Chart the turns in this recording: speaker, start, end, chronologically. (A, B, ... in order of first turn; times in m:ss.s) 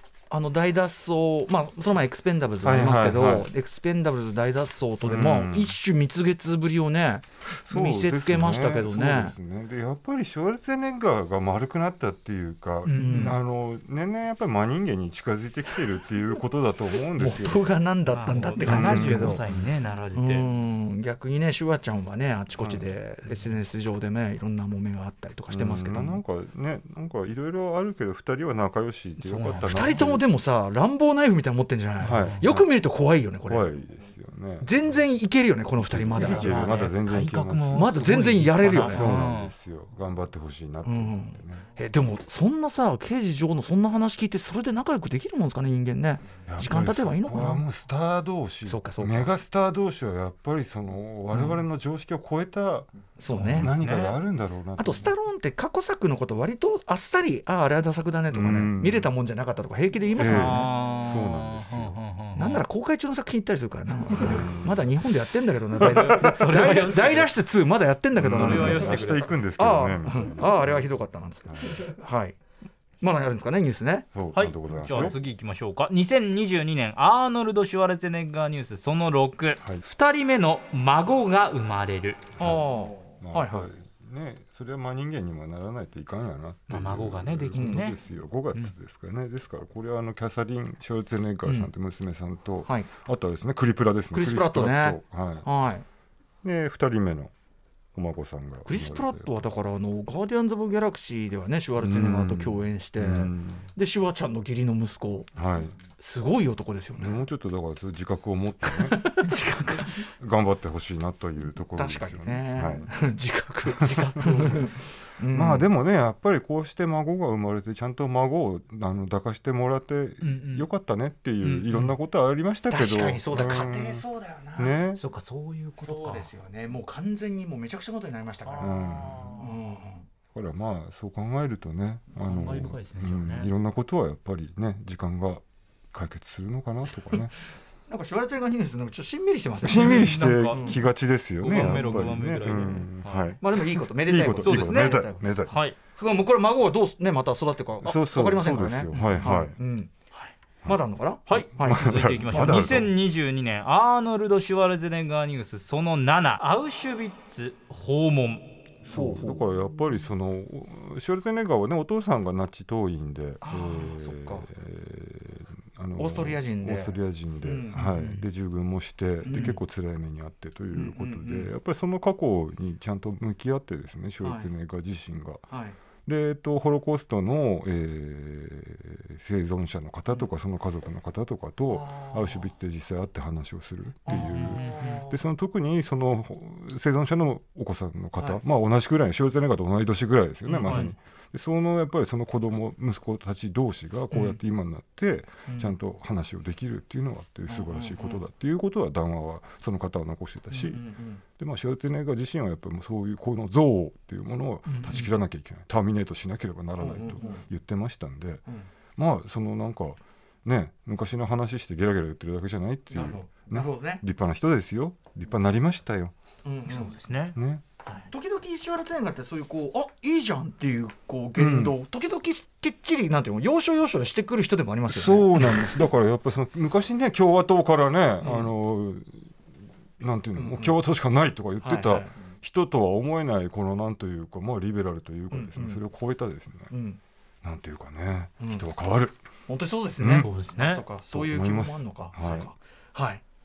0:00.3-0:09.4 A
0:02.6-0:03.5 B
0:05.0-0:05.8 B
0:07.5-0:17.7 B
0:12.8-0:13.4 C
0:13.0-0:13.4 A
0:17.2-0:19.4 A
0:18.1-0:20.4 C
0:18.6-0:19.6 B
0:20.2-0:26.2 A
0:22.6-0:22.8 B
0:25.5-0:30.2 B
0:29.3-0:33.7 A
0:29.4-0:30.0 C
0:32.0-0:32.4 C
0:32.0-0:32.7 B
0:33.5-0:34.7 B
0:34.6-0:36.6 A
0:35.8-0:41.6 B
0:36.2-0:39.5 C
0:37.7-0:39.0 A
0:40.8-0:47.6 A
0:46.5-0:55.1 B
0:48.7-0:49.3 A
0:53.2-0:53.7 A
0:53.3-0:54.2 C
0:54.8-1:00.7 A
0:58.3-0:59.1 B
1:00.2-1:02.0 B
1:00.2-1:02.6 C
1:02.4-1:12.4 A
1:04.2-1:04.9 B
1:05.8-1:07.3 C
1:05.8-1:06.4 B
1:08.2-1:10.9 B
1:08.2-1:09.3 C
1:11.5-1:11.8 B
1:13.0-1:14.1 A
1:14.1-1:15.2 B
1:14.4-1:22.3 C
1:22.4-1:22.7 B
1:22.4-1:23.7 A
1:23.2-1:35.5 B
1:26.7-1:28.0 C
1:27.6-1:27.8 A
1:34.1-1:35.8 A
1:36.4-1:37.3 B
1:37.9-1:39.4 B
1:38.6-1:45.3 A
1:41.8-1:43.7 B
1:45.4-1:45.7 B
1:46.0-1:47.2 A
1:47.0-1:49.0 B
1:48.9-1:49.2 A
1:49.2-1:49.9 C
1:50.2-1:52.9 B
1:51.8-1:55.7 A
1:53.7-1:54.7 B
1:55.3-2:04.0 B
2:00.2-2:00.7 C
2:01.4-2:01.9 C
2:02.7-2:04.8 A
2:04.6-2:05.0 B
2:05.0-2:06.3 C
2:05.8-2:08.8 A
2:08.5-2:09.5 C
2:08.6-2:09.3 B
2:09.4-2:10.1 A
2:10.3-2:15.4 B
2:12.2-2:13.5 C
2:15.9-2:17.3 B
2:17.9-2:20.8 A
2:19.6-2:25.5 B
2:19.6-2:20.8 C
2:21.4-2:23.3 C
2:23.4-2:25.3 A
2:24.4-2:25.8 C
2:26.0-2:29.9 A
2:27.8-2:29.5 B
2:28.9-2:29.4 C
2:30.6-2:32.6 A
2:31.3-2:38.5 C
2:31.6-2:32.9 B
2:38.8-2:55.4 B
2:38.9-2:39.4 A
2:43.4-2:44.5 A
2:46.0-2:47.8 A
2:47.8-2:48.2 C
2:49.2-2:49.6 A
2:50.7-2:51.5 A
2:54.2-2:54.5 A
2:55.5-2:55.8 A
2:56.1-3:28.4 B
3:01.7-3:02.5 A
3:04.1-3:05.2 A
3:04.1-3:05.0 C
3:10.5-3:10.9 A
3:10.6-3:10.9 C
3:15.5-3:15.8 A
3:17.5-3:18.2 A
3:20.5-3:21.2 A
3:24.7-3:25.1 C
3:26.8-3:27.4 A
3:29.0-3:36.1 B
3:32.9-3:34.0 A
3:36.4-3:36.9 A
3:36.7-3:37.4 C
3:37.4-3:37.6 B
3:38.1-3:45.8 A
3:41.4-3:41.8 B
3:44.9-3:49.2 B
3:50.0-3:56.7 B
3:50.4-3:50.8 A
3:51.6-3:52.1 A
3:55.3-3:55.8 A
3:56.7-3:57.0 A
3:57.4-3:59.1 B
3:58.4-3:58.6 A
3:59.5-4:03.2 A
4:00.0-4:00.3 B
4:00.1-4:00.8 C
4:01.1-4:02.5 B